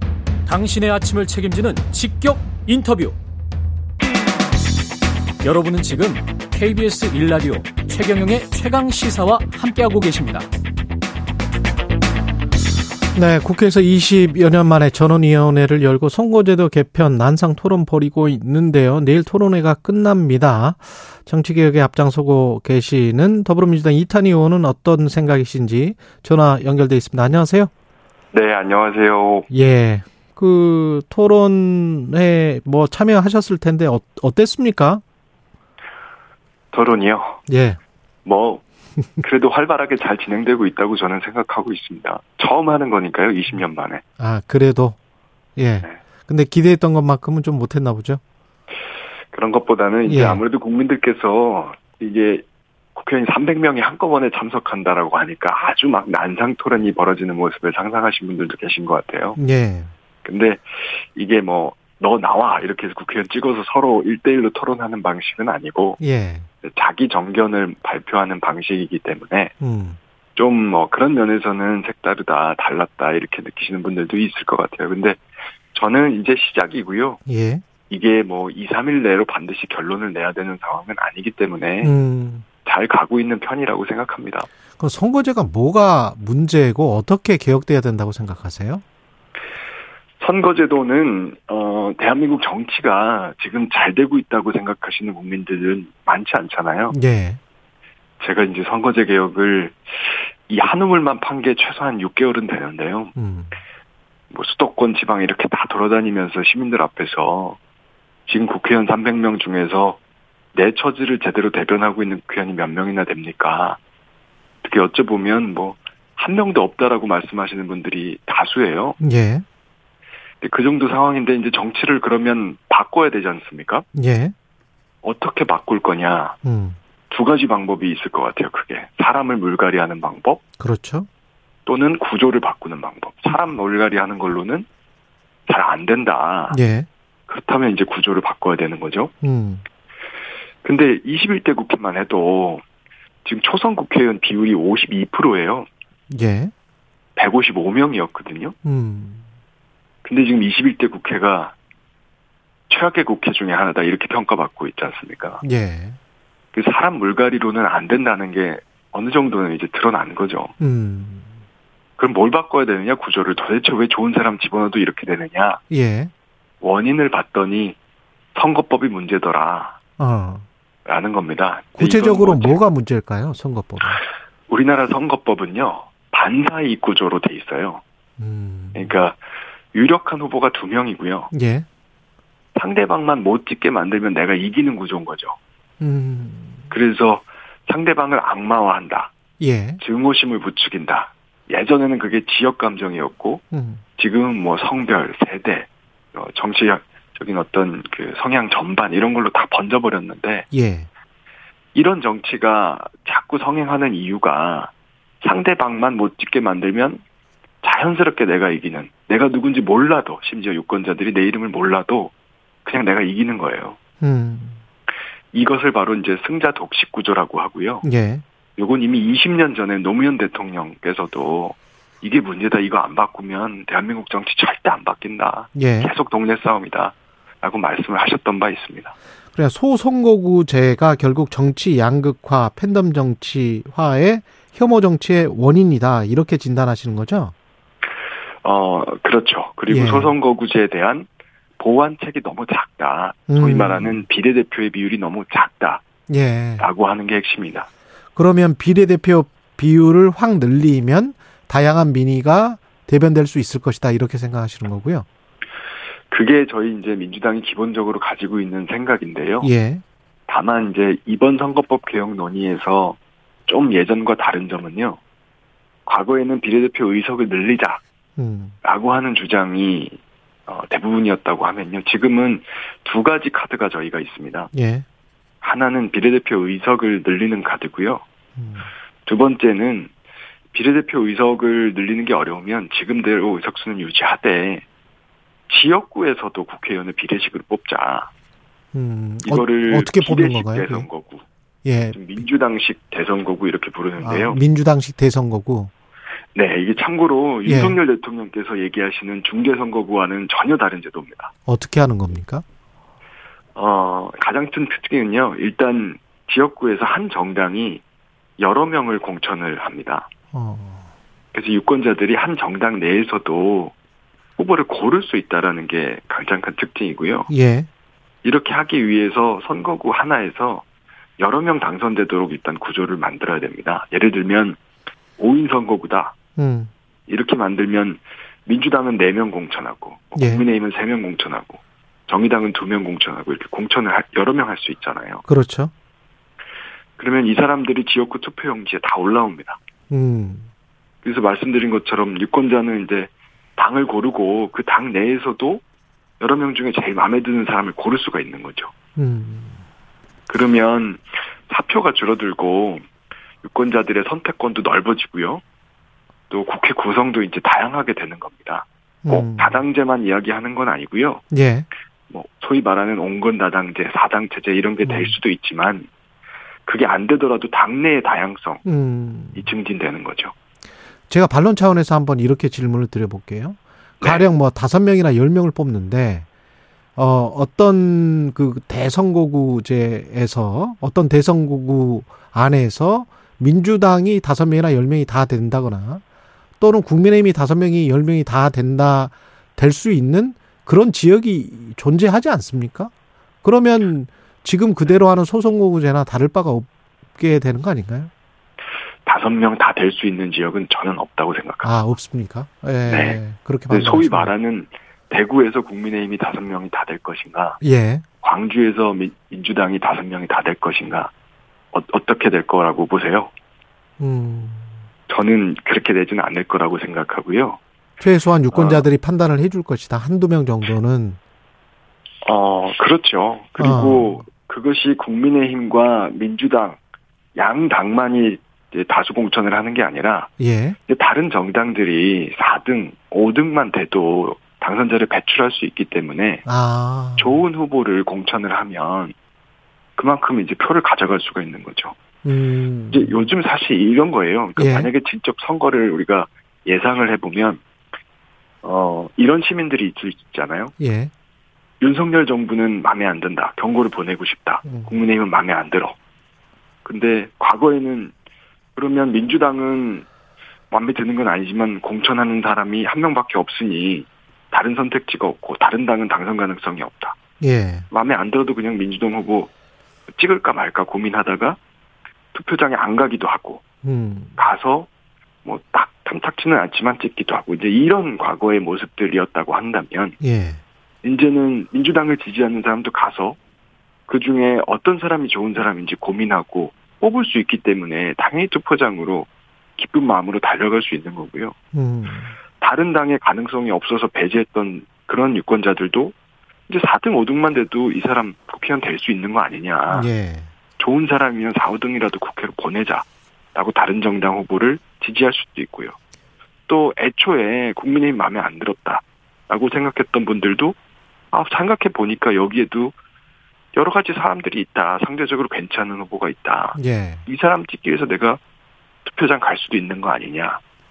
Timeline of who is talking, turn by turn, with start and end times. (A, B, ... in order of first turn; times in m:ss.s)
0:00.5-0:03.2 A
0:05.4-0:10.5 A
0:13.2-0:27.7 B
0:28.3-0:29.5 C
0:29.5-0:35.0 B
0:36.7-0:37.4 C
0:37.5-0:37.8 B
0:38.2-0:38.6 C
0:39.2-0:44.0 C
0:44.2-0:45.0 B
0:45.6-0:48.2 B
0:49.3-0:59.4 C
0:50.1-0:50.4 B
0:59.4-0:59.9 B
1:00.2-1:06.0 C
1:06.0-1:06.5 B
1:06.6-1:09.5 C
1:09.6-1:10.0 B
1:10.4-1:15.2 C
1:15.7-1:17.2 C
1:17.3-1:17.6 B
1:17.9-1:21.9 C
1:21.8-1:22.4 B
1:22.6-1:24.5 C
1:24.8-1:28.8 B
1:30.2-1:37.0 C
1:36.9-1:37.4 B
1:38.2-1:43.1 C
1:43.2-1:43.6 B
1:44.3-1:47.6 C
1:48.3-1:50.0 C
1:50.6-1:53.8 C
1:54.6-1:59.0 C
1:59.0-1:59.4 B
2:00.4-2:03.9 C
2:03.9-2:04.3 B
2:05.0-2:06.4 C
2:06.4-2:06.8 B
2:07.1-2:10.4 C
2:10.6-2:11.1 B
2:11.7-2:14.7 C
2:15.5-2:16.6 C
2:16.5-2:16.9 B
2:17.3-2:19.1 C
2:19.2-2:19.6 B
2:20.6-2:22.6 C
2:23.2-2:25.7 C
2:26.1-2:26.5 B
2:27.2-2:28.6 C
2:28.6-2:29.2 B
2:30.0-2:31.6 C
2:32.7-2:35.4 C
2:35.4-2:36.0 B
2:36.5-2:40.5 C
2:40.6-2:41.3 B
2:42.0-2:45.6 C
2:45.7-2:46.1 B
2:46.6-2:47.8 C
2:48.3-2:49.8 C
2:50.0-2:50.5 B
2:50.9-2:52.6 C
2:51.8-2:54.0 B
2:54.5-2:57.8 C
2:58.2-2:59.0 B
2:58.8-2:59.2 C
2:59.7-3:01.3 C
3:01.3-3:01.7 B
3:02.6-3:05.4 C
3:05.8-3:06.7 B
3:06.7-3:09.1 C
3:09.4-3:09.8 B
3:09.8-3:13.4 C
3:13.5-3:13.8 B
3:14.0-3:20.5 C
3:20.5-3:20.9 B
3:21.7-3:27.0 C
3:27.6-3:32.1 C
3:32.6-3:33.8 C
3:34.0-3:34.6 B
3:35.3-3:37.9 C
3:37.8-3:38.2 B
3:38.6-3:49.0 C
3:45.6-3:45.9 B
3:49.3-3:57.3 B
3:58.4-4:05.8 C
3:59.7-4:00.1 B
4:03.3-4:04.0 B
4:06.1-4:06.7 B
4:06.6-4:07.7 C
4:08.2-4:15.1 B
4:16.1-4:19.5 C
4:19.4-4:19.8 B
4:20.3-4:25.0 C
4:25.9-4:27.8 C
4:28.2-4:28.6 B
4:28.6-4:34.5 C
4:34.5-4:34.9 B
4:35.4-4:38.0 C
4:38.4-4:38.7 B
4:39.1-4:39.9 C
4:40.5-4:44.6 C
4:45.5-4:48.1 C
4:48.7-4:50.9 B
4:49.2-4:51.3 C
4:51.6-4:52.1 B
4:51.9-4:54.4 C
4:54.0-4:55.7 B
4:56.3-5:01.3 C
4:57.4-4:57.8 B
5:01.5-5:02.4 B
5:03.6-5:07.8 C
5:08.4-5:10.1 C
5:10.3-5:10.9 B
5:11.3-5:13.7 C
5:14.4-5:17.3 C
5:17.3-5:17.7 B
5:18.2-5:20.6 C
5:21.2-5:24.6 C
5:25.2-5:26.2 C
5:26.4-5:26.7 B
5:27.1-5:35.2 C
5:30.2-5:30.4 B
5:35.3-5:35.7 B
5:37.0-5:39.6 C
5:39.9-5:40.5 B
5:41.0-5:45.6 C
5:46.2-5:48.7 C
5:49.0-5:49.6 B
5:50.3-5:52.8 C
5:53.4-5:55.4 C
5:56.3-6:01.2 C
5:59.0-5:59.6 B
6:01.3-6:01.7 B
6:02.1-6:05.9 C
6:04.8-6:05.2 B
6:06.7-6:08.6 C
6:08.6-6:09.5 B
6:09.4-6:10.3 C
6:11.1-6:16.3 B
6:14.0-6:14.3 C
6:17.0-6:26.0 B
6:26.6-6:32.9 B
6:33.4-6:38.1 B
6:39.0-6:41.7 C
6:41.6-6:44.3 B
6:42.9-6:47.6 C
6:47.6-6:48.0 B
6:48.2-6:51.1 C
6:51.7-6:53.3 C
6:54.0-6:54.7 B
6:55.1-6:57.6 C
6:58.0-7:01.2 B
6:58.5-6:58.9 C
7:02.2-7:06.8 C
7:03.6-7:04.2 B
7:07.4-7:10.3 C
7:10.4-7:10.8 B
7:10.9-7:16.5 C
7:16.5-7:17.4 B
7:17.2-7:19.2 C
7:20.0-7:22.0 C
7:22.2-7:23.1 B
7:22.9-7:27.6 C
7:24.6-7:24.9 B
7:28.6-7:30.7 C
7:30.8-7:31.1 B
7:31.8-7:36.0 C
7:34.7-7:35.0 B
7:36.8-7:38.1 C
7:38.8-7:40.1 C
7:40.7-7:47.2 C
7:47.4-7:47.9 B
7:47.9-7:49.5 C
7:50.1-7:51.6 C
7:52.3-7:53.6 C
7:53.8-7:54.5 B
7:54.4-7:54.9 C
7:55.4-8:00.2 C
8:00.2-8:00.6 B
8:01.0-8:03.4 C
8:04.1-8:11.6 C
8:11.7-8:12.4 B
8:12.6-8:16.1 C
8:16.7-8:20.1 C
8:19.9-8:20.5 B
8:20.8-8:26.0 C
8:26.7-8:30.8 C
8:31.3-8:33.0 C
8:33.8-8:38.4 C
8:36.8-8:37.2 B
8:39.0-8:40.6 C